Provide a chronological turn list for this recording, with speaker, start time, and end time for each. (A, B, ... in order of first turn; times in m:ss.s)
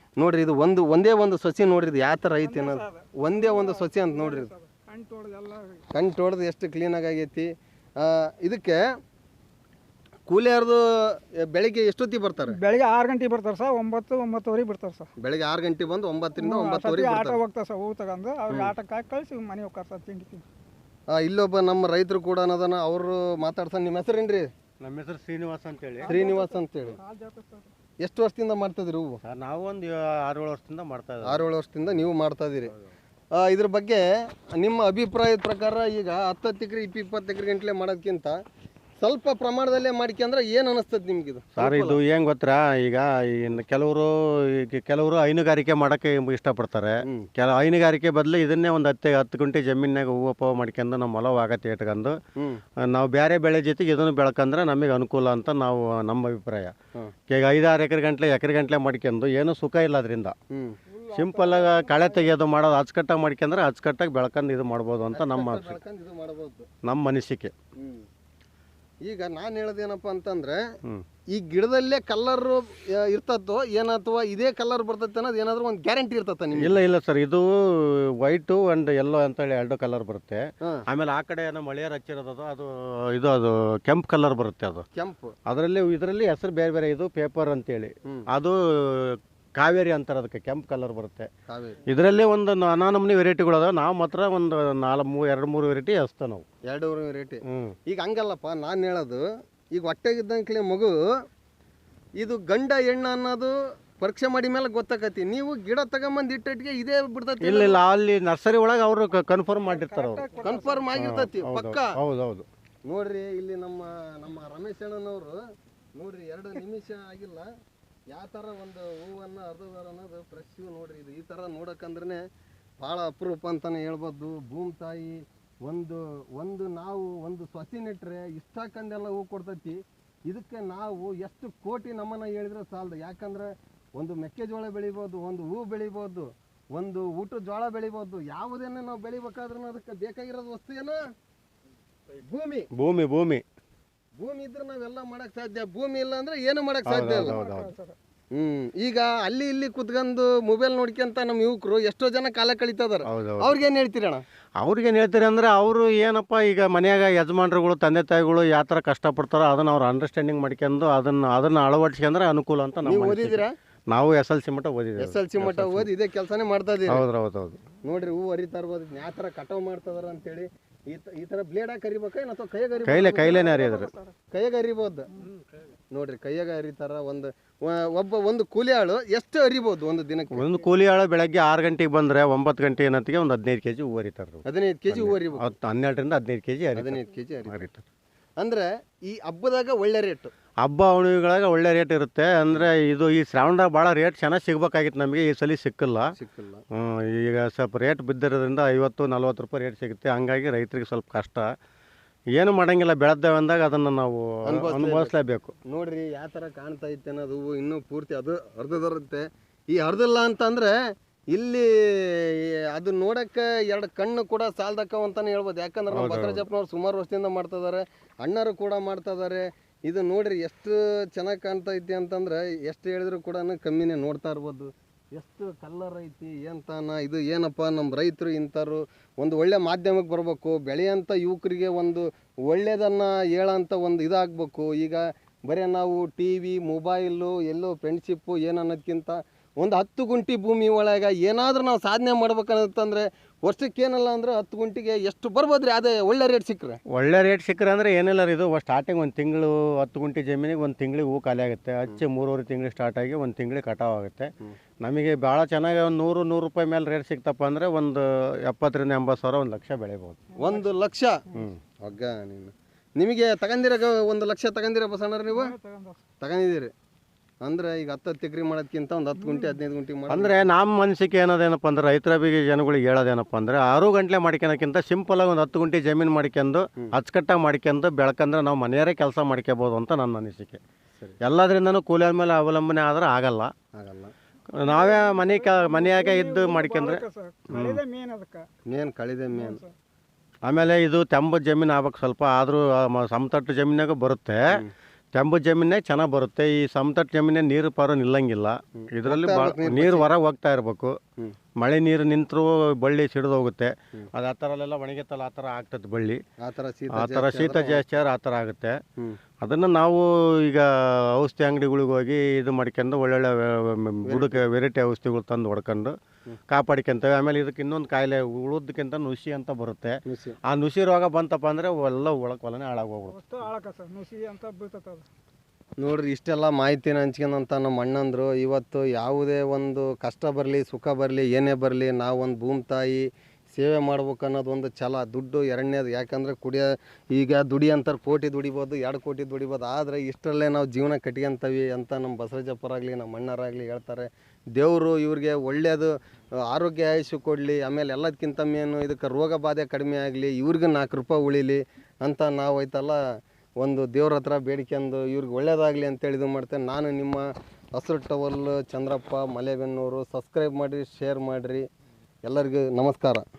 0:00.2-0:04.5 A
0:02.4-0:05.8 B
0:05.9-0:07.5 A
0:08.0-0:08.8 A
0:10.3-0:12.6 A
0:12.5-0:15.1 B
0:15.2-0:17.4 A
0:16.4-0:20.4 B
0:21.1-0:24.5 A
0:24.8-0:26.1 C
0:26.0-0:27.7 B
0:26.0-0:27.0 A
0:28.0-0:29.2 A
0:29.2-0:31.4 C
0:31.2-0:32.7 A
0:33.3-0:38.4 A
0:39.0-0:42.0 A
0:41.6-0:52.2 C
0:52.9-0:56.7 C
0:57.3-1:00.3 C
1:00.5-1:00.8 A
1:00.9-1:02.2 B
1:01.1-1:05.8 C
1:05.1-1:06.7 A
1:06.8-1:07.5 C
1:07.8-1:08.0 A
1:09.0-1:10.6 A
1:11.3-1:16.8 A
1:16.6-1:24.8 C
1:24.9-1:25.3 A
1:25.5-1:31.3 C
1:31.5-1:31.8 A
1:31.9-1:36.4 C
1:36.7-1:40.9 A
1:37.5-1:37.7 C
1:42.2-1:47.8 A
1:47.4-1:50.2 C
1:49.6-1:50.9 B
1:50.4-1:52.0 A
1:50.9-1:52.4 C
1:52.9-1:55.4 A
1:56.0-1:57.5 A
1:58.1-2:02.2 A
2:02.8-2:21.0 A
2:22.2-2:22.7 A
2:22.8-2:23.4 C
2:24.2-2:27.4 A
2:26.9-2:27.7 C
2:27.1-2:27.9 B
2:28.3-2:34.2 A
2:33.1-2:33.5 C
2:34.6-2:45.9 C
2:42.8-2:43.5 A
2:45.0-2:47.0 A
2:46.9-2:47.6 C
2:47.8-2:53.7 A
2:52.8-2:53.9 C
2:53.1-2:54.1 B
2:54.3-2:55.1 A
2:55.9-3:00.5 A
3:00.3-3:07.8 C
3:04.4-3:05.5 A
3:06.8-3:07.6 A
3:08.4-3:10.3 A
3:10.6-3:16.0 C
3:16.2-3:16.6 A
3:16.7-3:21.5 C
3:22.4-3:25.5 C
3:24.4-3:25.1 A
3:25.6-3:30.7 A
3:31.3-4:06.8 A
3:35.9-3:36.4 C
4:06.9-4:14.3 C
4:14.8-4:20.2 C
4:20.3-4:20.6 B
4:20.4-4:21.2 A
4:21.3-4:21.6 C
4:21.8-4:25.5 A
4:25.3-4:26.0 B
4:26.2-4:26.7 A
4:27.4-4:30.3 A
4:29.2-4:29.6 B
4:30.1-4:40.6 C
4:41.2-4:43.5 C
4:43.8-4:44.1 A
4:44.6-4:47.8 C
4:44.6-4:48.5 B
4:48.6-4:49.6 A
4:49.3-4:49.7 B
4:50.4-4:54.4 C
4:55.1-5:00.9 C
4:58.8-5:00.0 A
5:01.6-5:06.2 C
5:06.4-5:07.8 A
5:06.9-5:08.8 C
5:09.4-5:15.9 C
5:14.0-5:14.4 A
5:16.5-5:19.9 C
5:20.0-5:20.4 A
5:20.5-5:23.2 C
5:23.1-5:25.0 B
5:25.8-5:45.9 A
5:46.4-5:53.0 A
5:53.6-5:57.2 A
5:57.8-6:01.6 A
6:02.2-6:03.2 A